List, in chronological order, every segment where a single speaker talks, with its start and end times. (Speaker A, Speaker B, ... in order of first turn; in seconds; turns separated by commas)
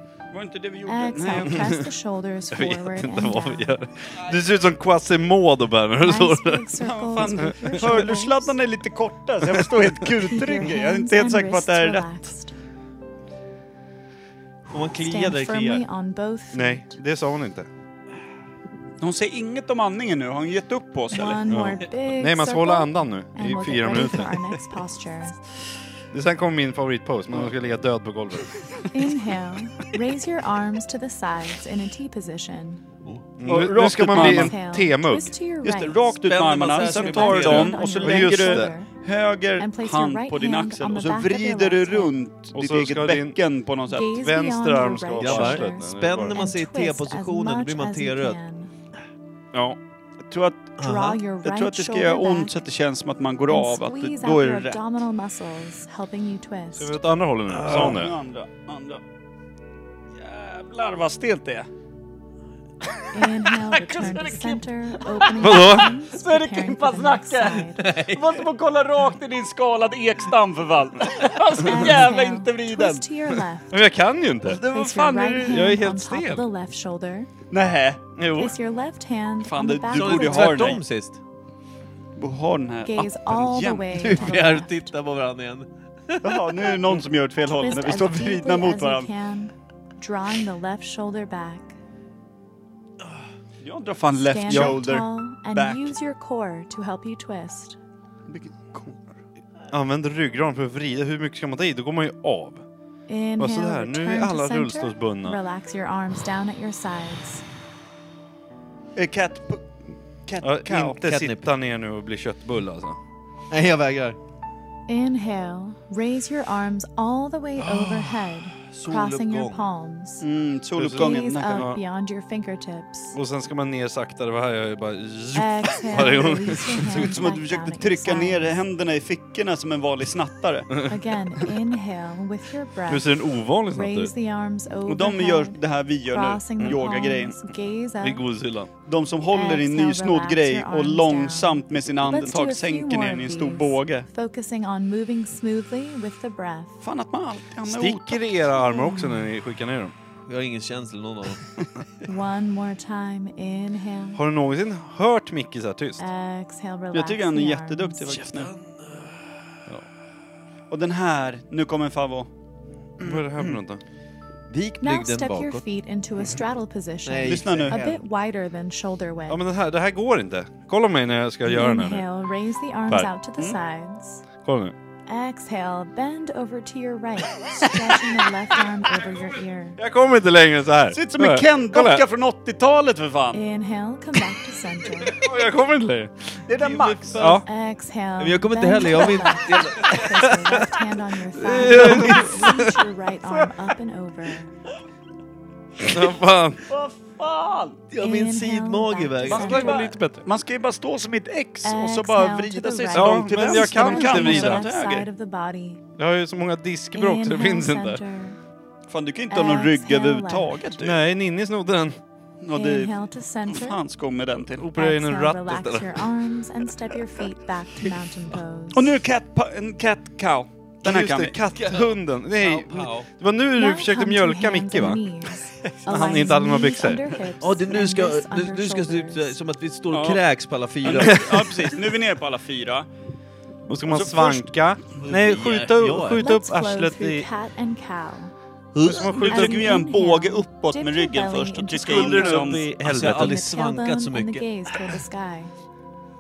Speaker A: 0.3-1.6, Speaker B: 0.9-3.9, Speaker C: 2.5-6.7, Speaker B: 6.0-8.6, Speaker A: 6.8-12.1, Speaker C: 7.3-8.1, Speaker B: 10.2-12.6, Speaker D: 14.7-15.8, Speaker B: 15.0-17.0, Speaker C: 16.5-17.7, Speaker A: 19.0-21.4, Speaker B: 21.1-25.4, Speaker C: 21.5-24.4, Speaker C: 26.1-28.5, Speaker B: 28.9-32.8, Speaker C: 33.4-35.3, Speaker A: 33.5-34.5, Speaker B: 33.9-36.1, Speaker A: 35.6-44.1, Speaker D: 36.2-37.8, Speaker B: 36.8-38.9, Speaker C: 37.8-38.7, Speaker B: 39.6-42.1, Speaker C: 42.5-43.4, Speaker B: 43.9-48.7, Speaker C: 44.0-46.4, Speaker D: 45.2-48.4, Speaker C: 49.5-49.8, Speaker A: 50.3-50.8, Speaker D: 50.8-51.2, Speaker B: 50.8-52.6, Speaker A: 51.4-54.8, Speaker B: 53.5-57.0, Speaker C: 56.8-58.2, Speaker D: 57.5-58.0, Speaker A: 57.6-59.0, Speaker A: 60.2-61.7, Speaker B: 63.1-68.0, Speaker A: 63.2-73.0, Speaker C: 65.4-65.9, Speaker D: 67.8-68.2, Speaker B: 71.6-73.8, Speaker C: 73.7-74.7, Speaker A: 74.5-75.6, Speaker B: 74.5-77.3, Speaker C: 75.4-76.4, Speaker A: 77.5-78.0, Speaker C: 78.2-78.6, Speaker B: 78.3-80.8, Speaker A: 79.4-80.8, Speaker D: 79.9-81.2, Speaker A: 82.2-83.9, Speaker B: 82.8-84.9, Speaker D: 83.9-86.8, Speaker A: 86.2-89.1, Speaker B: 87.5-91.8, Speaker A: 93.6-95.9, Speaker B: 94.2-97.8, Speaker C: 94.5-94.8, Speaker A: 98.3-99.0, Speaker C: 99.7-102.6, Speaker B: 103.1-107.4, Speaker C: 103.4-105.4, Speaker A: 109.0-109.7, Speaker A: 110.2-111.0, Speaker C: 110.4-113.0, Speaker D: 111.0-111.5, Speaker D: 113.5-114.2, Speaker B: 114.9-120.3, Speaker D: 117.6-119.7, Speaker A: 120.2-121.7, Speaker C: 120.8-121.8, Speaker B: 120.9-123.2, Speaker C: 123.1-127.1, Speaker B: 125.3-128.6, Speaker A: 126.9-130.7, Speaker C: 130.7-131.0, Speaker B: 130.8-138.2, Speaker C: 132.9-134.1, Speaker A: 134.9-137.4, Speaker C: 138.0-138.7, Speaker A: 138.9-144.1, Speaker B: 139.3-146.8, Speaker A: 146.8-148.3, Speaker C: 147.6-149.9, Speaker B: 148.5-149.3, Speaker D: 150.3-151.4, Speaker B: 152.0-154.2, Speaker C: 154.2-156.0, Speaker B: 156.0-158.2, Speaker A: 156.9-158.5, Speaker D: 158.1-159.6, Speaker A: 160.7-162.3, Speaker C: 163.0-163.8, Speaker D: 164.5-165.6, Speaker B: 164.8-169.4, Speaker D: 167.1-168.0, Speaker A: 167.2-167.8, Speaker C: 169.3-172.1, Speaker B: 171.4-174.2, Speaker C: 174.4-174.8, Speaker B: 175.1-179.8, Speaker C: 179.8-182.0, Speaker A: 180.9-183.4, Speaker B: 183.3-185.3, Speaker C: 185.1-186.4, Speaker A: 186.5-187.3, Speaker D: 186.6-187.4, Speaker C: 187.2-187.5, Speaker B: 187.3-194.5, Speaker D: 188.2-190.8, Speaker D: 191.4-192.4, Speaker C: 191.5-192.8, Speaker C: 195.8-196.6, Speaker A: 196.7-197.8, Speaker D: 197.9-199.6, Speaker B: 198.0-199.9, Speaker C: 199.3-200.2, Speaker A: 199.3-205.1, Speaker B: 201.6-205.8, Speaker C: 202.9-204.6, Speaker C: 206.0-208.0, Speaker B: 206.9-208.4, Speaker A: 208.9-211.0, Speaker B: 209.3-210.7, Speaker C: 210.8-212.0, Speaker A: 212.4-212.9, Speaker B: 212.5-213.8, Speaker A: 213.5-214.7, Speaker C: 214.5-216.0, Speaker B: 214.8-218.9, Speaker A: 218.7-221.4, Speaker C: 220.8-225.0, Speaker D: 221.5-223.1, Speaker B: 223.6-229.4, Speaker C: 225.8-227.0, Speaker D: 227.4-231.5, Speaker A: 229.9-230.2, Speaker A: 230.8-232.9, Speaker C: 231.0-231.4, Speaker C: 233.7-237.3, Speaker A: 233.9-234.5, Speaker D: 235.0-236.2, Speaker B: 236.2-238.3, Speaker D: 238.8-239.1, Speaker C: 238.8-239.8, Speaker A: 238.9-242.7, Speaker B: 239.2-245.5, Speaker C: 241.8-243.4, Speaker D: 242.5-244.5